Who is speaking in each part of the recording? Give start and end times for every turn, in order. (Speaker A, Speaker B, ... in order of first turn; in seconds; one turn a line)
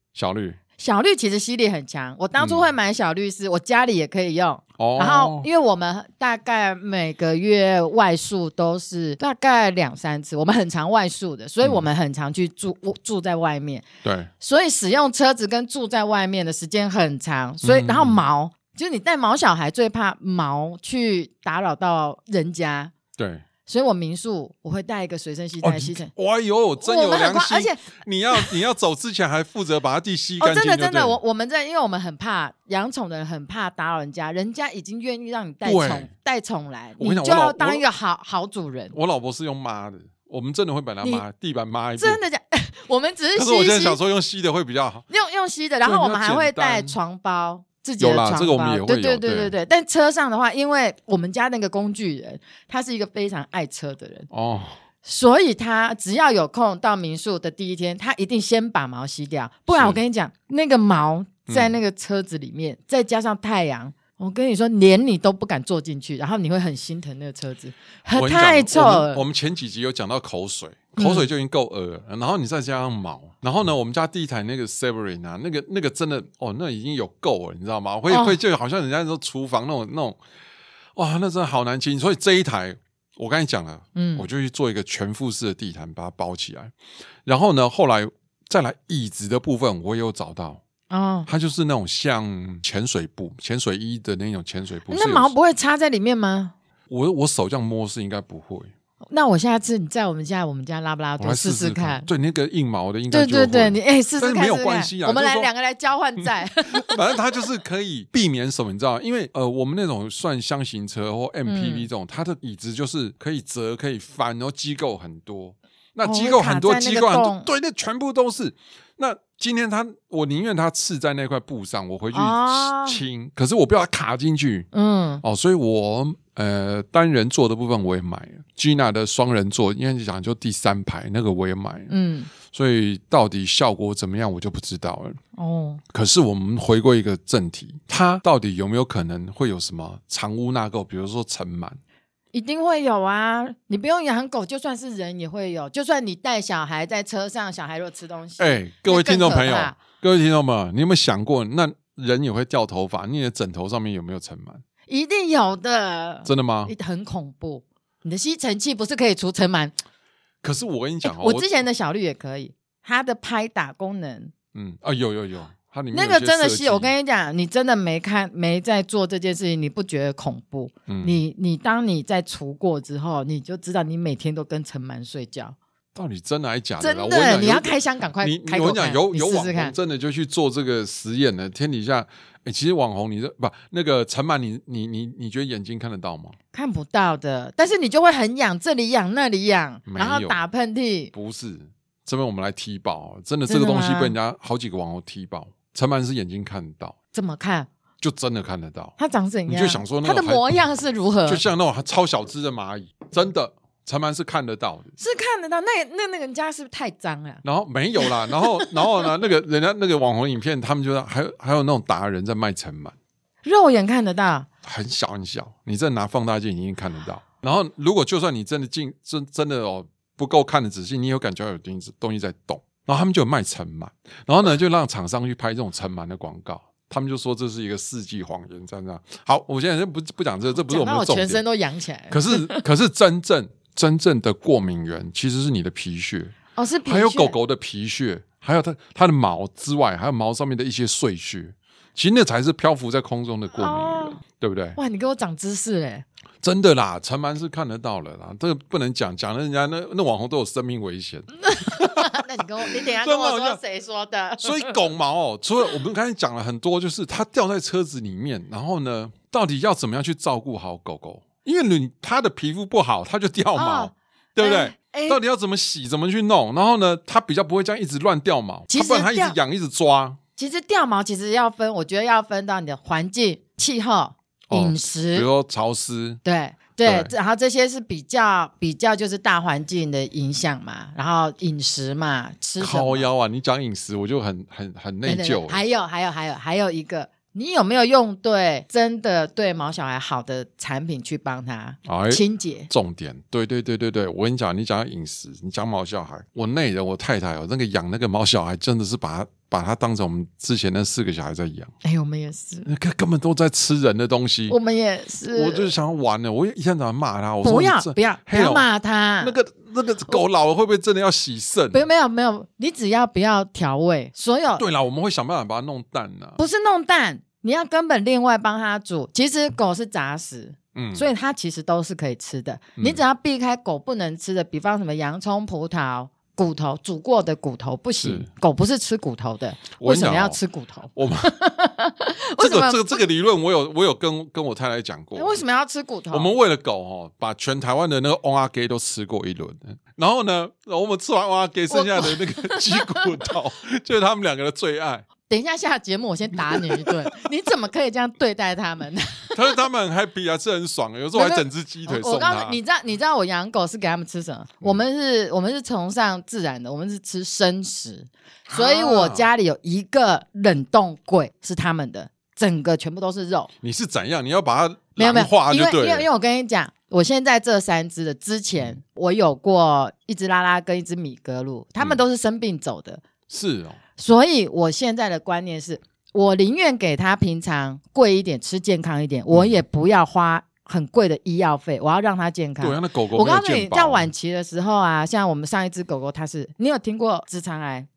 Speaker A: 0.1-0.6
Speaker B: 0.8-13.8
Speaker A: 2.4-2.7
Speaker A: 4.8-5.5
Speaker A: 14.0-14.3
Speaker B: 14.4-22.9
Speaker A: 17.6-18.2
Speaker A: 23.2-23.4
Speaker B: 23.6-26.1
Speaker A: 25.6-31.2
Speaker B: 26.8-28.6
Speaker B: 30.4-39.0
Speaker A: 35.6-36.1
Speaker A: 37.0-37.8
Speaker A: 38.9-42.2
Speaker B: 42.0-44.0
Speaker A: 43.3-45.0
Speaker B: 45.1-54.3
Speaker A: 45.8-47.0
Speaker A: 48.0-49.5
Speaker A: 54.3-54.8
Speaker B: 55.0-69.2
Speaker A: 59.7-60.0
Speaker A: 61.5-61.8
Speaker A: 68.1-80.2
Speaker B: 71.0-71.3
Speaker B: 78.1-78.4
Speaker A: 81.0-86.7
Speaker B: 84.0-84.3
Speaker A: 87.2-90.6
Speaker B: 90.9-91.3
Speaker A: 91.3-95.3
Speaker B: 94.9-96.5
Speaker A: 96.9-98.7
Speaker B: 99.1-102.1
Speaker A: 101.2-105.5
Speaker B: 103.1-107.0
Speaker A: 106.2-124.7
Speaker B: 111.5-111.9
Speaker B: 116.0-117.5
Speaker B: 122.1-123.0
Speaker B: 124.7-125.2
Speaker A: 125.2-131.9
Speaker B: 131.9-132.3
Speaker A: 132.5-135.2
Speaker B: 135.3-135.8
Speaker A: 135.9-141.8
Speaker B: 142.3-149.8
Speaker A: 148.4-154.6
Speaker B: 154.9-159.8
Speaker A: 156.2-156.7
Speaker A: 160.4-161.5
Speaker B: 161.0-164.3
Speaker A: 164.5-166.9
Speaker B: 165.9-175.6
Speaker A: 170.9-171.2
Speaker A: 175.9-186.3
Speaker B: 176.8-179.8
Speaker B: 186.5-191.1
Speaker A: 189.9-190.4
Speaker A: 191.1-196.9
Speaker B: 193.5-194.2
Speaker B: 197.1-197.7
Speaker A: 198.0-198.9
Speaker B: 199.0-201.4
Speaker A: 199.5-200.6
Speaker A: 201.2-204.9
Speaker B: 205.0-207.4
Speaker A: 207.4-212.9
Speaker B: 208.0-209.1
Speaker B: 213.4-214.5
Speaker A: 214.6-231.4
Speaker B: 230.5-232.6
Speaker A: 232.1-244.8
Speaker B: 236.5-237.3
Speaker B: 243.5-244.2
Speaker B: 244.8-246.0
Speaker A: 246.4-253.6
Speaker B: 251.4-254.8
Speaker A: 254.4-270.2
Speaker B: 263.5-265.2
Speaker B: 268.7-269.4
Speaker B: 270.4-275.3
Speaker A: 274.5-276.2
Speaker B: 276.2-283.1
Speaker A: 276.8-277.1
Speaker A: 282.6-285.6
Speaker B: 285.0-292.7
Speaker A: 291.9-301.7
Speaker B: 301.8-302.7
Speaker A: 302.6-304.6
Speaker B: 304.5-305.7
Speaker A: 305.3-308.7
Speaker B: 307.4-309.4
Speaker A: 309.2-311.8
Speaker B: 311.7-314.6
Speaker A: 314.6-316.4
Speaker B: 316.4-333.0
Speaker A: 320.7-321.1
Speaker A: 322.8-323.0
Speaker A: 328.0-328.3
Speaker A: 329.8-330.4
Speaker A: 330.9-331.4
Speaker A: 332.4-335.4
Speaker B: 335.1-336.3
Speaker A: 336.1-345.1
Speaker B: 341.7-343.0
Speaker B: 345.3-349.3
Speaker A: 346.4-346.9
Speaker A: 349.3-352.6
Speaker B: 351.1-363.5
Speaker A: 358.5-359.3
Speaker A: 363.6-366.1
Speaker B: 365.0-373.0
Speaker A: 373.3-373.8
Speaker B: 374.0-387.9
Speaker A: 379.3-379.6
Speaker A: 382.6-384.1